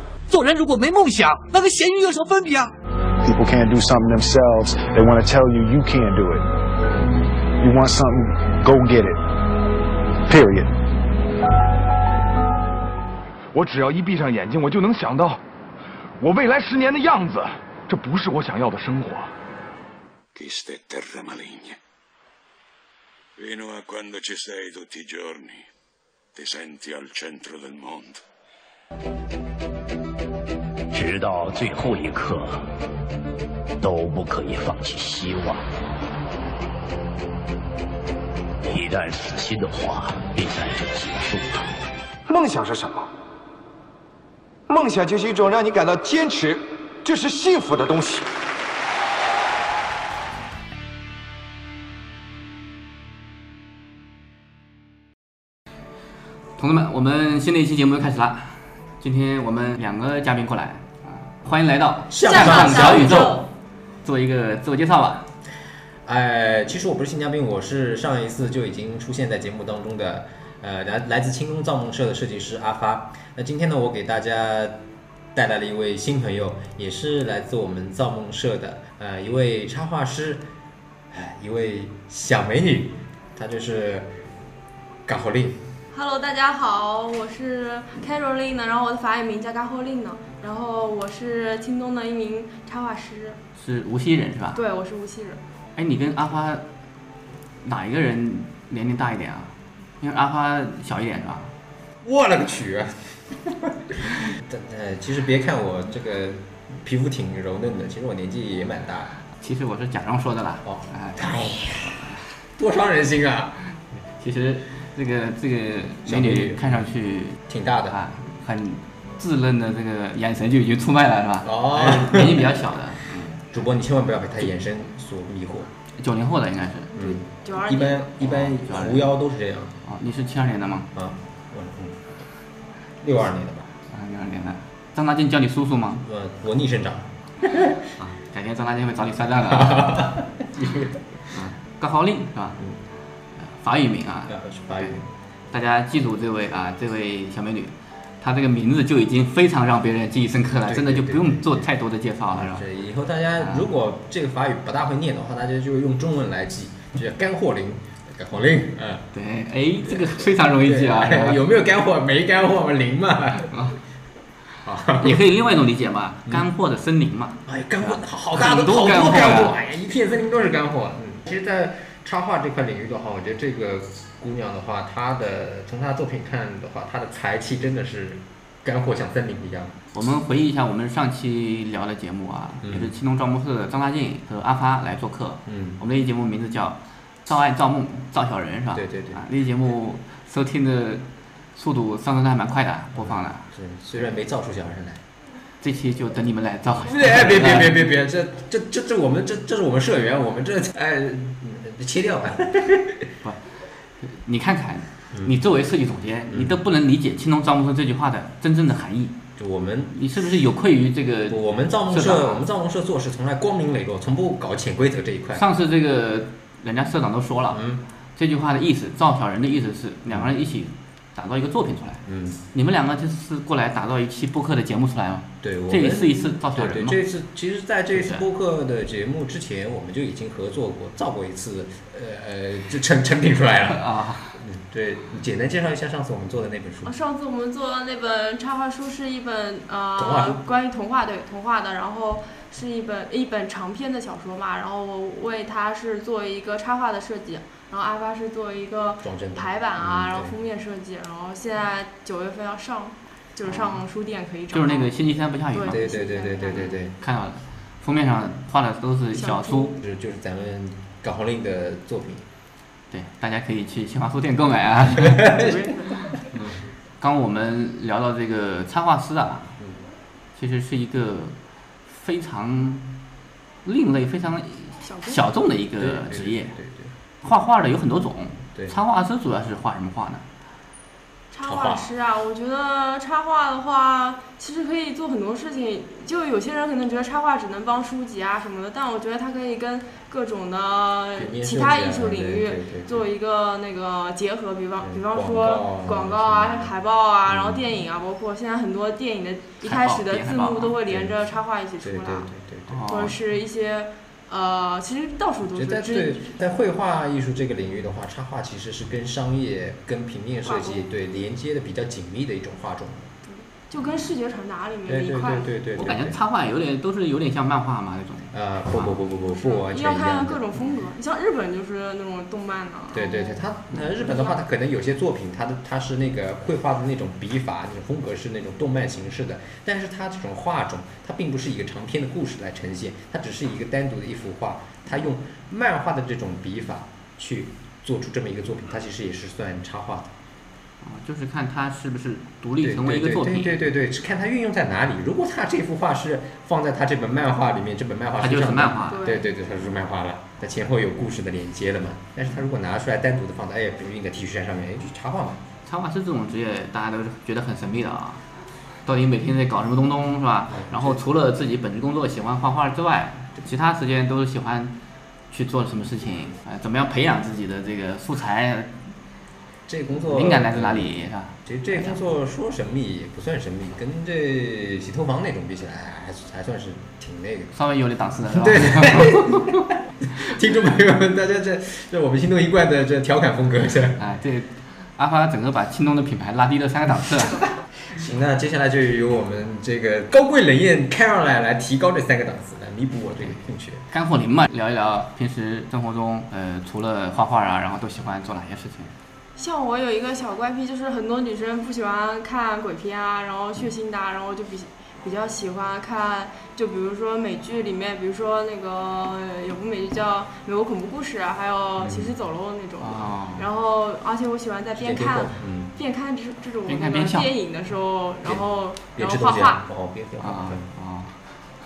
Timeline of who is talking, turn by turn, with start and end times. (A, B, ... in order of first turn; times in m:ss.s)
0:00.3-0:02.7 A
0:03.2-0:06.5 B
0:07.6-0:09.2 B
0:10.2-0:10.8 B
0:13.5-0:15.4 C
0:16.2-0:19.3 C
0:20.3-0:21.8 D
0:23.4-0:25.7 D
0:26.3-0:28.2 D
0:30.9-0:32.6 E
0:33.8-0:35.7 E
0:38.6-0:41.8 E
0:42.3-0:43.1 F
0:44.7-0:48.3 F
0:56.6-1:03.4 G
1:02.1-1:03.4 H
1:02.2-1:03.4 I
1:04.0-1:05.3 G
1:06.0-1:14.8 H
1:15.3-1:20.4 H
1:21.1-1:24.1 H
1:25.1-1:25.6 H
1:25.9-1:33.4 I
1:33.6-1:34.6 G
1:34.5-1:35.4 I
1:35.8-1:36.6 G
1:37.6-1:41.5 G
1:42.0-1:49.2 H
1:49.4-1:51.3 G
1:50.6-1:53.6 H
1:54.2-2:03.4 G
1:56.0-1:56.8 H
1:57.5-1:58.0 H
2:01.4-2:02.7 H
2:03.5-2:05.7 H
2:06.0-2:06.9 G
2:06.9-2:08.1 I
2:07.0-2:09.7 H
2:08.2-2:09.1 G
2:09.8-2:10.9 G
2:10.9-2:12.1 H
2:13.0-2:13.7 H
2:13.9-2:16.0 G
2:16.0-2:17.8 H
2:18.0-2:20.0 G
2:19.4-2:21.2 H
2:21.3-2:22.6 G
2:23.4-2:25.0 G
2:24.3-2:25.1 H
2:25.5-2:32.6 G
2:30.7-2:31.7 H
2:32.3-2:39.1 H
2:33.4-2:33.7 G
2:39.1-2:41.4 G
2:39.8-2:43.5 H
2:43.5-2:43.8 G
2:44.6-2:45.2 H
2:45.0-2:49.5 G
2:47.4-2:59.7 H
2:59.9-3:13.5 G
3:02.6-3:02.9 H
3:05.5-3:05.8 H
3:08.7-3:09.2 H
3:12.9-3:15.0 H
3:15.6-3:17.8 G
3:16.8-3:23.1 H
3:23.2-3:29.2 G
3:26.3-3:26.6 H
3:29.4-3:30.0 H
3:29.9-3:32.4 G
3:31.3-3:35.4 H
3:35.3-3:37.6 G
3:37.5-3:37.8 H
3:38.2-3:47.0 G
3:42.0-3:42.4 H
3:45.4-3:56.9 H
3:47.9-3:48.2 G
3:53.7-3:54.4 G
3:56.8-4:14.9 I
4:00.0-4:00.4 H
4:09.0-4:10.3 H
4:13.4-4:13.8 G
4:14.5-4:15.8 G
4:15.5-4:16.8 I
4:15.7-4:16.9 H
4:16.9-4:19.7 G
4:19.1-4:19.8 I
4:19.8-4:22.2 H
4:22.9-4:25.2 G
4:25.0-4:25.6 H
4:25.2-4:26.2 I
4:27.0-4:29.6 G
4:30.4-4:31.3 G
4:31.9-4:32.9 G
4:33.6-4:36.5 G
4:34.8-4:35.3 I
4:35.8-4:36.9 H
4:37.2-4:40.2 G
4:41.3-5:02.3 I
4:41.4-4:41.9 H
4:51.1-4:53.1 H
4:54.8-4:56.7 H
4:57.3-4:57.8 H
4:59.6-5:00.7 G
5:00.9-5:01.1 H
5:01.8-5:02.8 H
5:02.7-5:03.1 G
5:02.9-5:06.4 I
5:05.5-5:13.1 H
5:10.4-5:10.8 I
5:13.2-5:15.5 I
5:14.8-5:16.2 H
5:15.7-5:19.0 G
5:18.3-5:20.7 H
5:19.3-5:23.4 I
5:22.9-5:40.1 H
5:24.0-5:24.4 I
5:40.8-5:43.6 G
5:42.6-5:55.4 H
5:48.2-5:49.0 G
5:48.9-5:49.2 I
5:55.6-5:58.2 G
5:58.8-6:04.7 G
6:00.5-6:01.0 H
6:05.3-6:08.8 G
6:09.7-6:10.9 H
6:10.0-6:12.0 G
6:11.4-6:17.5 H
6:17.5-6:19.6 G
6:18.2-6:24.0 H
6:24.0-6:27.4 G
6:27.9-6:33.8 H
6:33.2-6:38.9 G
6:39.4-6:59.6 I
6:51.8-6:52.1 H
6:52.8-6:53.5 G
6:54.7-6:55.7 H
6:56.7-6:57.3 G
6:58.2-7:00.7 H
7:00.2-7:01.2 G